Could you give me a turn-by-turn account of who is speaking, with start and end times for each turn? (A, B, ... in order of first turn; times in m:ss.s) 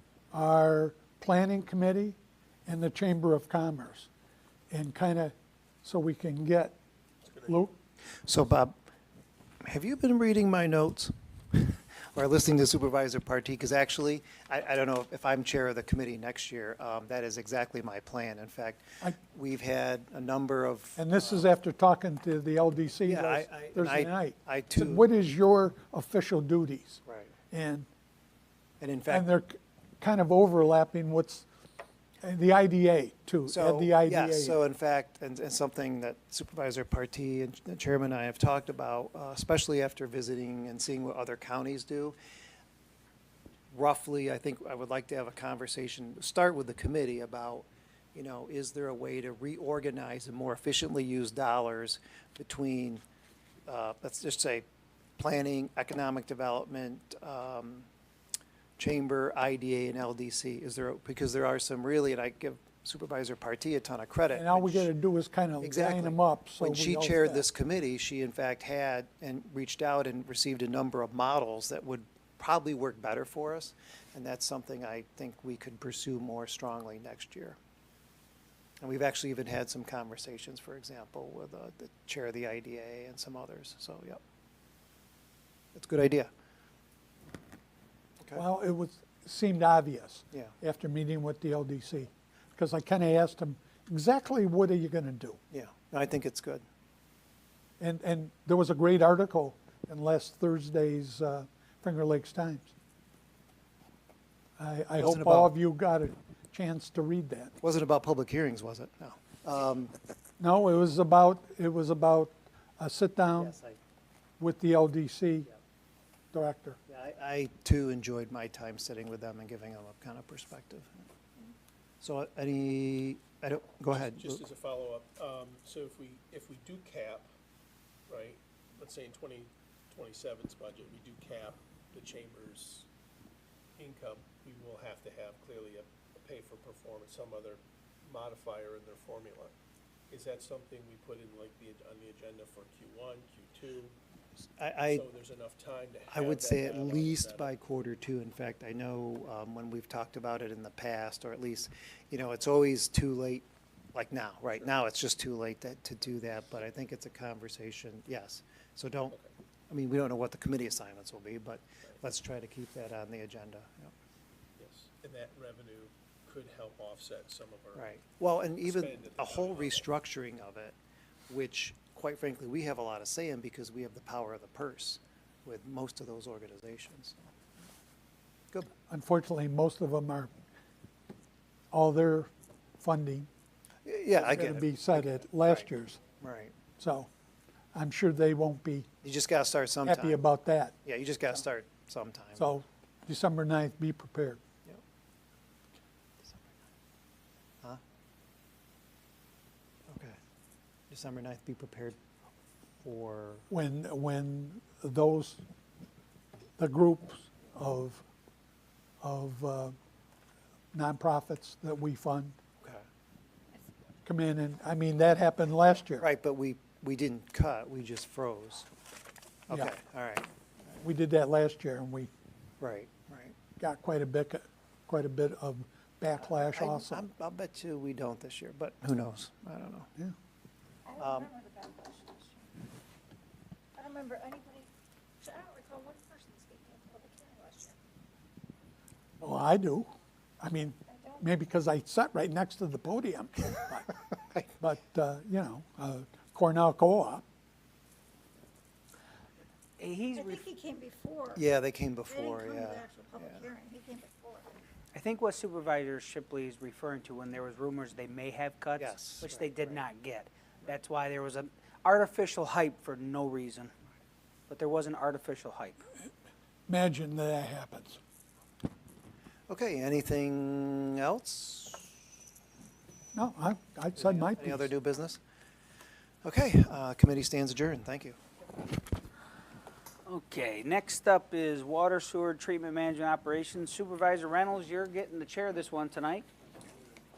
0:00.3-0:04.1 A
0:04.7-0:06.8 A
0:07.2-0:07.6 B
0:07.4-0:07.8 A
0:08.2-0:08.7 C
0:09.6-0:21.5 C
0:21.0-0:27.9 A
0:23.0-0:25.0 C
0:27.0-0:27.3 C
0:28.8-0:29.3 C
0:29.1-0:31.5 A
0:32.2-0:34.6 A
0:33.5-0:42.2 C
0:43.7-0:53.0 C
0:53.7-0:54.6 C
0:55.2-0:57.9 C
0:58.8-1:04.9 C
1:04.3-1:07.4 A
1:05.6-1:17.6 C
1:18.8-1:24.2 C
1:25.7-1:26.3 C
1:28.3-1:35.4 A
1:35.5-1:36.6 C
1:37.8-1:42.7 A
1:44.6-1:47.5 A
1:45.0-1:45.5 C
1:47.6-1:49.9 C
1:50.4-1:53.6 A
1:53.4-1:53.8 C
1:54.4-1:55.5 A
1:56.3-1:56.8 A
1:56.9-2:01.0 C
2:02.0-2:04.4 C
2:03.9-2:07.3 B
2:08.1-2:12.9 B
2:13.8-2:19.5 B
2:20.1-2:23.9 B
2:24.6-2:25.0 C
2:24.9-2:27.5 B
2:26.1-2:39.2 C
2:39.7-2:43.9 C
2:44.6-2:47.9 B
2:47.7-2:50.8 C
2:48.6-2:49.9 B
2:51.3-2:57.2 C
2:58.9-3:00.3 A
3:01.7-3:03.3 A
3:03.8-3:05.6 C
3:04.1-3:06.0 A
3:06.2-3:06.5 C
3:06.8-3:07.1 A
3:07.7-3:08.9 A
3:09.0-3:10.2 C
3:09.8-3:10.8 A
3:10.8-3:12.5 C
3:12.4-3:14.4 A
3:16.2-3:16.6 C
3:19.9-3:20.2 C
3:20.9-3:22.0 C
3:22.8-3:23.5 C
3:23.5-3:25.4 A
3:26.6-3:28.0 A
3:29.0-3:29.7 A
3:30.7-3:32.4 A
3:34.0-3:36.1 A
3:36.0-3:38.7 C
3:39.5-3:40.3 C
3:40.7-3:42.1 A
3:42.6-3:43.3 C
3:43.6-3:47.1 A
3:46.2-3:49.9 C
3:50.8-3:52.6 D
3:51.0-3:51.3 C
3:53.8-3:57.8 D
3:59.2-4:04.0 A
4:00.9-4:01.2 D
4:04.6-4:07.2 A
4:09.8-4:10.5 E
4:10.1-4:11.4 D
4:11.3-4:13.4 C
4:12.1-4:14.6 D
4:14.9-4:23.7 E
4:18.8-4:19.8 C
4:24.5-4:25.8 E
4:26.7-4:28.0 A
4:29.5-4:32.0 C
4:33.1-4:34.7 A
4:34.0-4:35.2 C
4:36.2-4:38.2 C
4:40.0-4:46.3 E